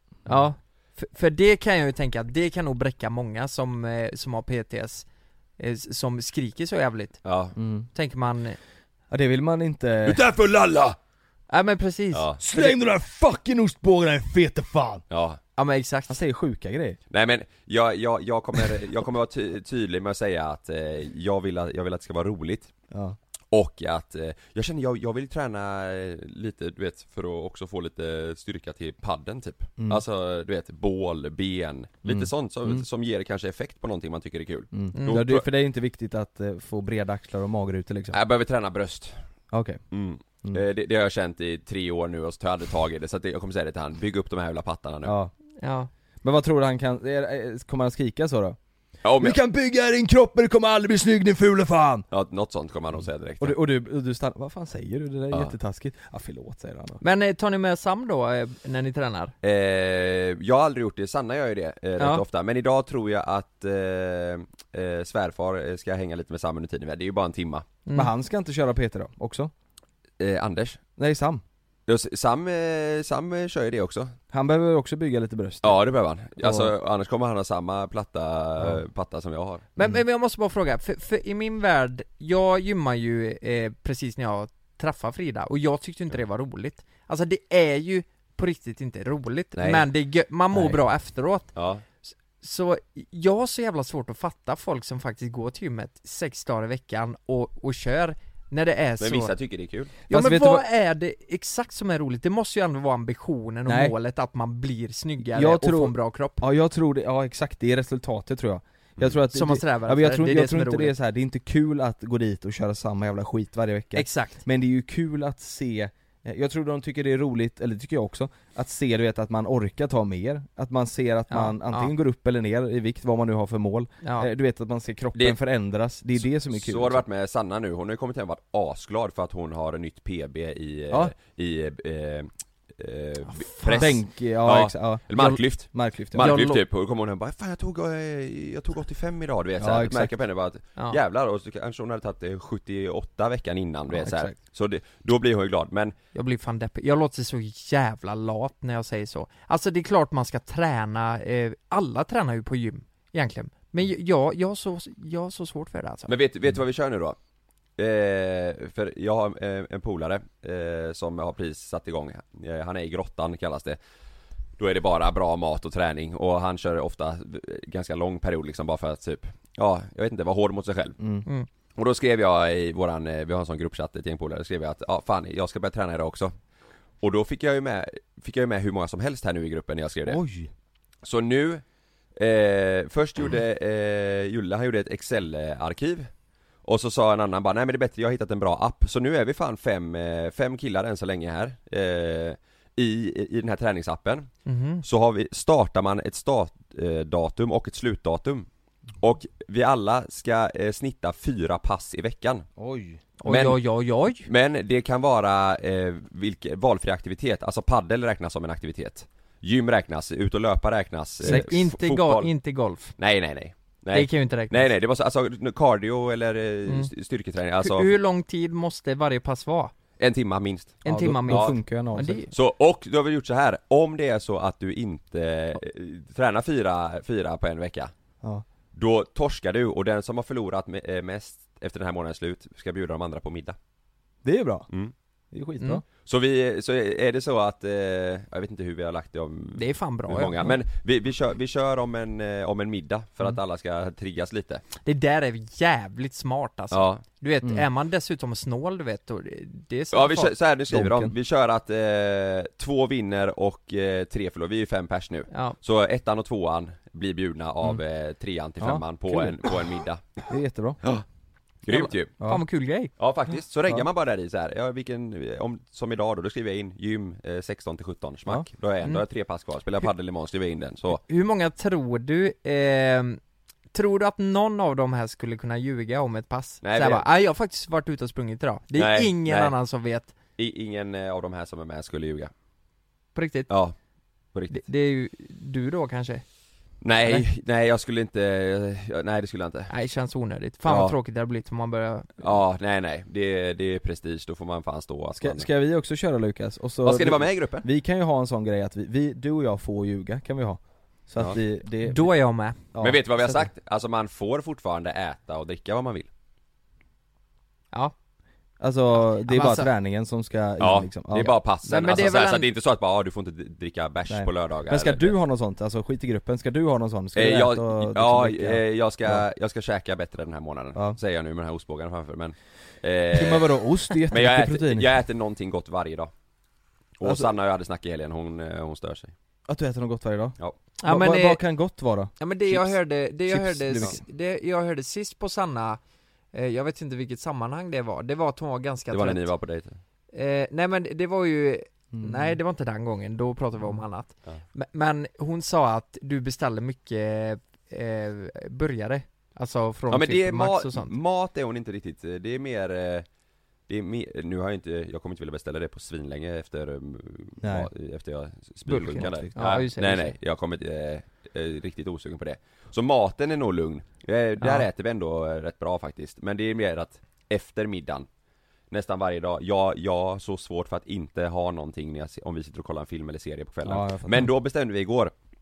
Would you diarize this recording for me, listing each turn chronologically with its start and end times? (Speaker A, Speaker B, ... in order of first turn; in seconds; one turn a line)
Speaker A: 0.3-5.0
Speaker A: 5.6-7.2
Speaker B: 7.2-7.5
Speaker C: 7.5-7.9
Speaker A: 7.9-8.6
Speaker C: 9.1-10.9
Speaker A: 11.5-12.2
Speaker B: 12.1-12.5
Speaker C: 12.4-15.0
Speaker B: 15.1-15.4
Speaker A: 15.6-16.2
Speaker C: 16.1-17.0
Speaker B: 17.1-22.7
Speaker C: 22.9-23.2
Speaker B: 23.5-35.4
Speaker C: 32.0-32.8
Speaker C: 34.7-38.2
Speaker A: 34.9-35.2
Speaker B: 38.1-39.1
Speaker C: 39.5-39.8
Speaker B: 39.9-45.1
Speaker C: 45.0-45.3
Speaker A: 45.6-45.9
Speaker C: 46.2-48.6
Speaker B: 49.0-49.4
Speaker C: 49.2-52.0
Speaker B: 52.1-53.6
Speaker C: 53.4-57.0
Speaker A: 57.0-59.3
Speaker B: 59.4-67.6
Speaker C: 67.9-69.5
Speaker B: 70.2-70.8
Speaker C: 71.0-71.4
Speaker B: 71.9-74.1
Speaker C: 74.3-75.8
Speaker B: 75.6-79.7
Speaker C: 76.4-76.7
Speaker A: 79.8-91.5
Speaker B: 89.6-89.8
Speaker B: 91.5-91.8
Speaker A: 92.0-99.3
Speaker B: 99.0-100.0
Speaker A: 100.1-106.4
Speaker C: 100.1-100.6
Speaker C: 103.7-103.9
Speaker C: 105.3-127.0
Speaker A: 109.3-110.9
Speaker A: 113.9-114.4
Speaker A: 121.3-121.9
Speaker A: 124.0-124.3
Speaker B: 126.5-145.9
Speaker C: 130.9-131.1
Speaker A: 133.3-134.0
Speaker C: 133.8-136.5
Speaker A: 136.2-136.6
Speaker C: 139.6-140.1
Speaker C: 143.9-144.3
Speaker A: 146.1-156.1
Speaker B: 156.1-157.2
Speaker B: 157.8-163.8
Speaker B: 164.6-171.0
Speaker C: 171.0-171.3
Speaker B: 171.7-176.3
Speaker B: 177.0-180.2
Speaker C: 180.1-180.5
Speaker B: 181.0-181.6
Speaker B: 182.2-186.1
Speaker B: 186.6-194.3
Speaker A: 194.4-194.8
Speaker B: 194.8-198.5
Speaker B: 199.0-202.5
Speaker C: 202.6-203.0
Speaker A: 203.2-204.3
Speaker B: 203.2-203.6
Speaker B: 204.2-212.3
Speaker C: 211.2-211.5
Speaker A: 211.2-212.9
Speaker B: 213.0-217.9
Speaker A: 213.9-214.7
Speaker A: 217.6-219.7
Speaker B: 220.0-221.6
Speaker A: 220.8-222.3
Speaker C: 220.8-222.2
Speaker B: 222.3-227.9
Speaker B: 228.7-233.6
Speaker C: 234.2-234.7
Speaker C: 235.3-235.8
Speaker B: 236.0-244.6
Speaker A: 239.5-240.5
Speaker A: 244.8-250.3
Speaker B: 246.7-247.0
Speaker B: 249.9-260.2
Speaker C: 250.7-251.1
Speaker C: 258.6-259.5
Speaker C: 260.3-260.8
Speaker B: 261.6-262.1
Speaker A: 261.7-262.9
Speaker B: 263.0-271.0
Speaker A: 271.0-273.2
Speaker A: 273.7-280.1
Speaker B: 276.6-277.0
Speaker B: 278.7-279.5
Speaker B: 280.4-282.3
Speaker A: 283.1-283.5
Speaker B: 283.5-283.7
Speaker B: 284.3-284.6
Speaker A: 284.5-286.2
Speaker B: 286.8-289.7
Speaker A: 289.7-292.3
Speaker B: 290.6-290.9
Speaker B: 292.2-295.5
Speaker C: 295.1-302.1
Speaker B: 296.8-297.7
Speaker A: 301.8-302.6
Speaker C: 302.7-303.5
Speaker B: 302.8-306.1
Speaker C: 308.6-311.3
Speaker A: 308.9-309.7
Speaker B: 310.6-315.1
Speaker A: 311.6-312.5
Speaker C: 314.1-319.2
Speaker B: 317.1-323.6
Speaker C: 323.1-324.9
Speaker B: 324.1-326.1
Speaker B: 327.0-329.1
Speaker C: 327.0-327.3
Speaker C: 329.5-332.7
Speaker A: 330.8-331.4
Speaker A: 332.2-335.8
Speaker C: 333.3-334.0
Speaker A: 336.3-339.3
Speaker B: 338.9-339.8
Speaker A: 340.1-350.9
Speaker C: 341.9-342.4
Speaker B: 349.9-353.0
Speaker B: 353.7-368.1
Speaker C: 357.4-357.7
Speaker C: 358.7-359.4
Speaker A: 359.3-360.1
Speaker B: 368.7-375.1
Speaker C: 373.6-374.3